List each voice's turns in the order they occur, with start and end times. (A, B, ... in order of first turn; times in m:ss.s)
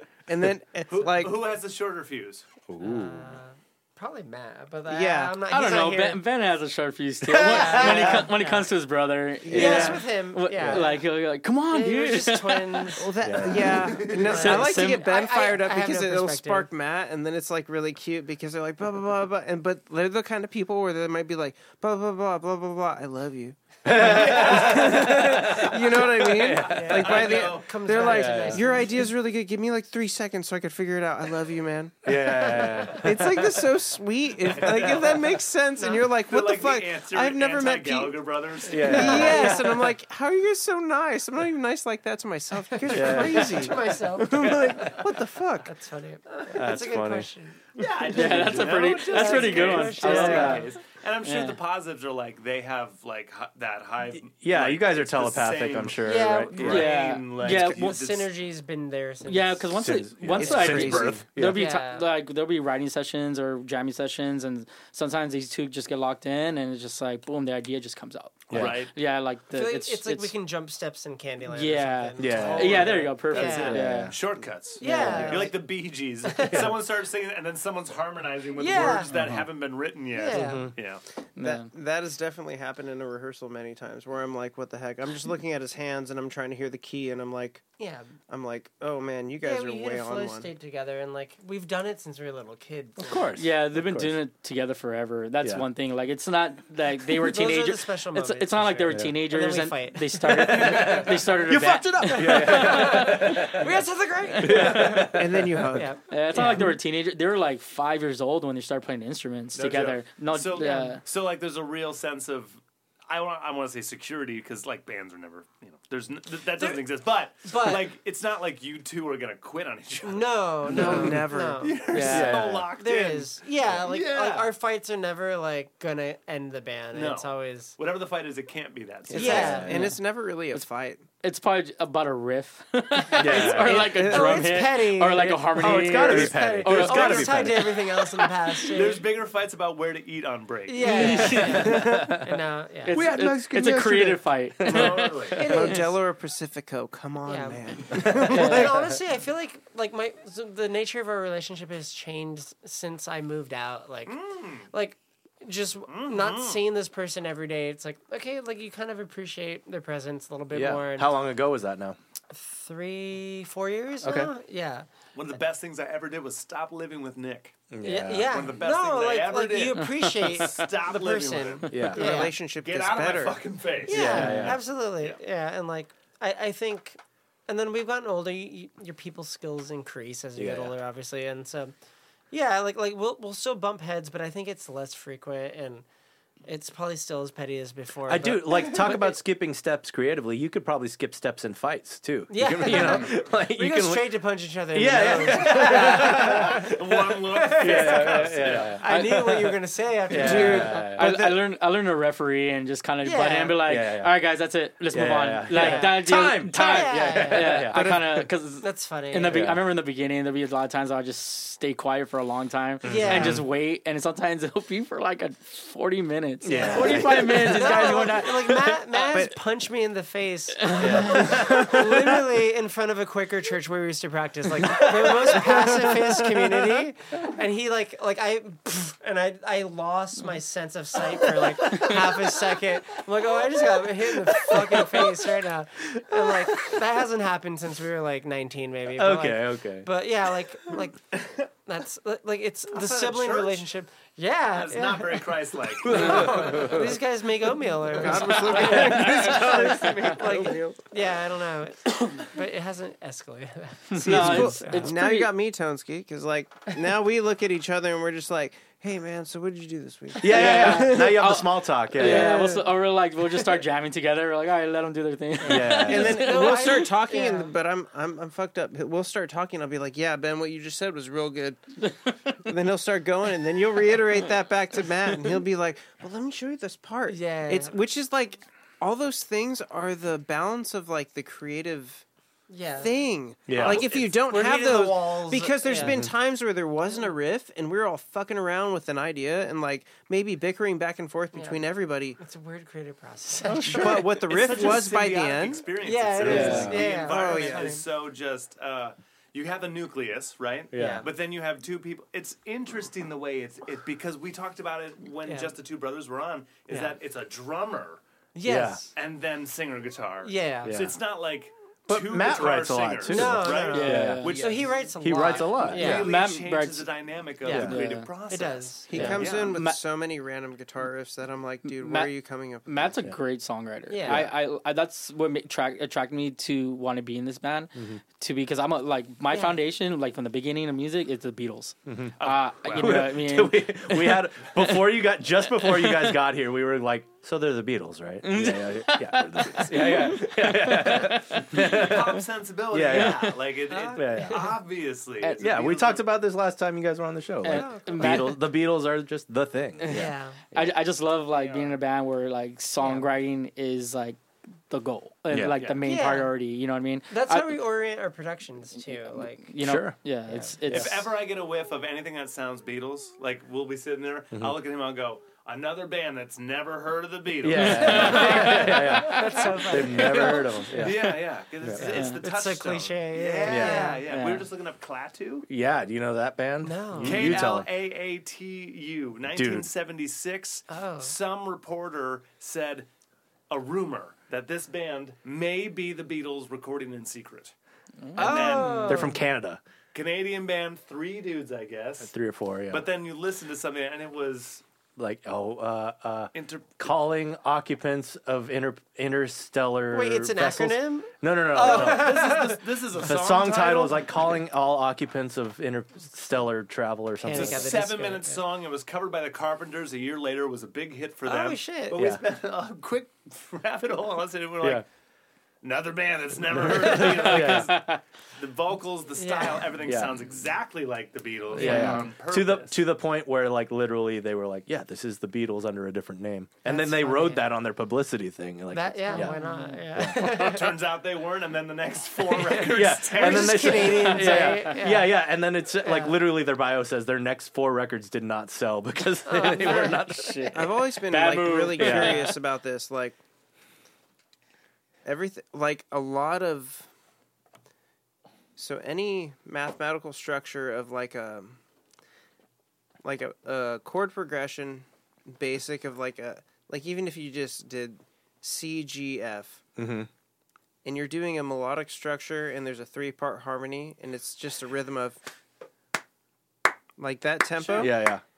0:00.3-0:01.5 A
0:00.9-0:02.4 B
0:02.7-0:03.3 C
0:02.8-0:06.2 D
0:04.9-0:05.4 A
0:05.5-0:13.0 E
0:07.2-0:08.2 C
0:07.3-0:08.7 D
0:09.5-0:10.0 C
0:09.5-0:10.0 A
0:09.5-0:11.1 D
0:10.6-0:10.9 C
0:11.7-0:13.1 D
0:13.0-0:45.7 A
0:13.2-0:14.1 C
0:13.8-0:14.5 B
0:14.0-0:16.7 D
0:14.3-0:15.0 E
0:23.8-0:27.0 C
0:24.0-0:24.9 B
0:26.6-0:27.7 B
0:26.6-0:29.1 D
0:28.0-0:28.6 C
0:32.0-0:33.6 C
0:32.4-0:32.9 D
0:34.4-0:35.4 B
0:35.8-0:36.0 D
0:36.2-0:39.5 B
0:38.6-0:39.6 C
0:38.8-0:39.8 D
0:42.7-0:45.0 D
0:42.9-0:43.8 C
0:44.4-0:45.0 C
0:45.6-0:47.6 D
0:46.5-0:47.3 C
0:47.8-0:56.0 B
0:48.1-0:50.7 E
0:48.2-0:48.7 C
0:48.5-0:50.7 D
0:50.0-0:50.6 C
0:51.2-0:51.6 E
0:54.1-0:56.9 C
0:56.0-0:59.8 D
0:56.5-0:58.3 B
0:56.6-0:58.0 E
0:59.2-1:10.3 E
0:59.7-1:01.6 C
1:00.4-1:01.2 A
1:01.5-1:02.1 D
1:08.5-1:08.8 C
1:08.5-1:08.9 B
1:09.5-1:13.8 D
1:11.4-1:14.2 E
1:12.2-1:13.1 C
1:12.4-1:21.0 B
1:13.7-1:14.1 C
1:14.8-1:15.6 D
1:14.8-1:15.4 E
1:16.2-1:16.7 D
1:18.6-1:19.1 D
1:19.1-1:19.4 C
1:20.1-1:20.7 D
1:20.3-1:20.7 C
1:21.4-1:21.7 E
1:21.4-1:27.7 A
1:27.8-1:28.1 D
1:28.3-1:30.5 A
1:29.4-1:33.3 D
1:33.0-1:34.2 C
1:33.3-1:43.2 E
1:37.1-1:41.0 D
1:38.9-1:39.2 C
1:40.2-1:43.8 C
1:42.0-1:45.1 D
1:44.4-1:45.8 C
1:44.6-1:46.0 A
1:45.7-1:46.7 D
1:46.1-1:51.0 E
1:49.5-2:04.5 B
1:50.6-1:51.0 D
1:56.6-1:56.8 D
1:57.4-1:57.9 D
2:00.0-2:07.8 D
2:00.7-2:01.8 A
2:00.7-2:01.1 C
2:01.9-2:02.7 C
2:02.0-2:02.3 E
2:06.9-2:09.7 B
2:09.1-2:09.9 C
2:09.1-2:09.9 D
2:09.1-2:11.0 A
2:09.6-2:09.9 E
2:11.2-2:17.6 E
2:13.0-2:19.0 D
2:13.2-2:14.4 C
2:13.6-2:14.4 A
2:15.5-2:17.9 C
2:18.7-2:21.4 B
2:20.7-2:23.0 D
2:20.8-2:22.0 E
2:21.1-2:22.2 C
2:21.6-2:22.0 A
2:22.8-2:25.7 E
2:22.9-2:25.1 C
2:24.6-2:25.4 B
2:24.7-2:28.9 A
2:25.3-2:25.9 D
2:27.2-2:41.1 D
2:27.9-2:28.8 C
2:28.3-2:28.6 E
2:34.1-2:34.7 B
2:35.9-2:36.6 B
2:40.5-2:42.0 C
2:42.3-2:44.9 D
2:44.0-2:44.3 C
2:45.1-2:47.6 B
2:47.7-2:48.4 C
2:47.8-2:52.3 D
2:48.2-2:54.2 B
2:49.8-2:50.6 E
2:51.7-2:52.2 C
2:51.8-2:53.5 A
2:53.9-3:01.7 D
2:53.9-2:54.6 C
2:54.1-2:54.6 E
3:00.4-3:00.7 C
3:02.3-3:05.8 D
3:06.4-3:09.1 D
3:08.1-3:14.2 C
3:12.3-3:21.0 D
3:14.7-3:16.7 C
3:15.6-3:18.8 B
3:17.6-3:19.5 C
3:18.9-3:19.4 E
3:20.1-3:21.1 C
3:20.1-3:21.4 A
3:20.2-3:39.2 E
3:23.0-3:23.6 D
3:23.6-3:24.1 C
3:24.9-3:28.3 C
3:25.5-3:27.8 D
3:28.6-3:29.4 D
3:29.3-3:29.6 C
3:32.8-3:33.4 D
3:32.8-3:33.4 C
3:36.4-3:38.2 C
3:36.5-4:14.9 D
3:40.6-3:41.3 E
3:40.8-3:42.2 C
3:44.7-3:45.7 C
3:45.2-3:46.3 A
3:51.7-3:52.0 C
3:53.3-3:55.2 C
3:55.9-3:56.8 C
3:58.9-3:59.9 C
4:02.7-4:03.6 B
4:04.6-4:06.3 B
4:05.8-4:07.0 C
4:07.8-4:10.8 A
4:08.3-4:10.4 C
4:13.9-4:14.4 C
4:14.0-4:15.3 E
4:14.0-4:21.3 A
4:20.2-4:22.6 C
4:20.2-4:26.2 E
4:22.0-4:22.6 A
4:25.4-4:26.6 C
4:25.8-4:27.5 D
4:25.8-4:42.0 A
4:32.0-4:32.4 E
4:37.1-4:37.8 D
4:42.5-4:46.0 D
4:42.8-4:52.2 A
4:43.5-4:43.8 C
4:43.5-4:43.8 B
4:45.7-4:46.1 C
4:51.3-4:51.6 D
4:52.2-4:54.0 D
4:53.4-4:54.1 C
4:53.6-4:55.6 A
4:54.2-5:08.0 B
4:55.8-4:57.8 D
4:56.2-4:56.8 C
4:56.3-4:56.7 E
4:56.3-4:57.8 A
5:00.7-5:01.1 C
5:00.7-5:01.1 D
5:05.2-5:05.5 D
5:06.7-5:07.0 D
5:08.3-5:08.9 D
5:08.4-5:08.8 C
5:08.9-5:19.5 B
5:10.2-5:10.8 D
5:10.6-5:11.0 C
5:11.9-5:14.3 C
5:13.1-5:16.1 D
5:13.7-5:14.5 E
5:15.0-5:16.1 C
5:15.7-5:16.9 E
5:17.4-5:19.2 D
5:17.5-5:18.1 E
5:17.5-5:17.8 C
5:18.9-5:23.0 A
5:18.9-5:19.8 E
5:21.6-5:22.1 E
5:22.6-5:34.9 E
5:23.9-5:24.2 D
5:24.1-5:24.3 C
5:27.7-5:28.0 C
5:29.3-5:29.6 D
5:31.9-5:32.1 C
5:32.2-5:33.1 B
5:32.8-5:43.3 C
5:35.6-5:36.2 E
5:38.2-5:41.9 E
5:41.5-5:46.0 B
5:42.9-5:43.3 E
5:43.7-5:44.5 D
5:43.9-5:44.6 C
5:45.2-5:45.6 E
5:45.4-5:50.7 C
5:47.4-5:48.4 E
5:47.5-5:48.0 D
5:49.8-5:57.6 E
5:49.9-5:50.4 D
5:51.4-5:51.7 B
5:52.8-5:53.1 D
5:55.3-5:55.6 C
5:55.5-5:55.9 B
5:55.8-5:56.3 D
5:57.1-5:59.5 D
5:59.4-6:01.0 E
5:59.6-6:00.0 C
6:00.3-6:00.6 D
6:00.6-6:08.6 B
6:04.3-6:04.6 C
6:07.4-6:11.8 C
6:07.5-6:09.4 E
6:07.9-6:10.7 D
6:10.0-6:15.5 B
6:11.8-6:14.0 D
6:11.8-6:12.2 E
6:13.4-6:13.9 C
6:14.0-6:14.5 E
6:15.5-6:17.7 C
6:16.6-6:17.4 D
6:17.0-6:22.9 B
6:19.3-6:19.7 C
6:20.7-6:21.1 D
6:23.5-6:27.5 B
6:28.1-6:29.1 B
6:28.2-6:29.2 D
6:28.9-6:29.6 C
6:29.9-6:32.1 B
6:32.0-6:32.9 C
6:32.7-6:34.6 B
6:35.0-6:47.8 C
6:36.3-6:36.8 B
6:39.9-6:42.6 D
6:41.5-6:44.4 B
6:47.2-6:48.4 D
6:47.3-6:54.8 B
6:51.2-6:52.0 D
6:51.9-6:52.2 C
6:55.6-7:02.8 B
6:56.5-6:57.7 C
6:57.3-6:58.0 E
6:59.2-6:59.7 D
6:59.8-7:00.1 C
7:01.5-7:09.4 C
7:01.6-7:02.1 E
7:01.6-7:02.0 D
7:06.6-7:07.5 D
7:08.7-7:10.8 D
7:09.1-7:09.9 E
7:09.9-7:10.3 C
7:10.2-7:14.1 B
7:12.3-7:15.2 D
7:12.6-7:20.6 C
7:14.2-7:14.6 E
7:15.8-7:16.2 D
7:19.2-7:20.2 D
7:19.8-7:22.4 E
7:20.5-7:23.2 A
7:21.7-7:22.3 C
7:25.0-7:26.9 A
7:28.6-7:31.6 A
7:33.0-7:39.6 A
7:39.8-7:40.1 C
7:40.8-7:45.2 A
7:47.0-7:48.1 A
7:47.8-7:48.2 C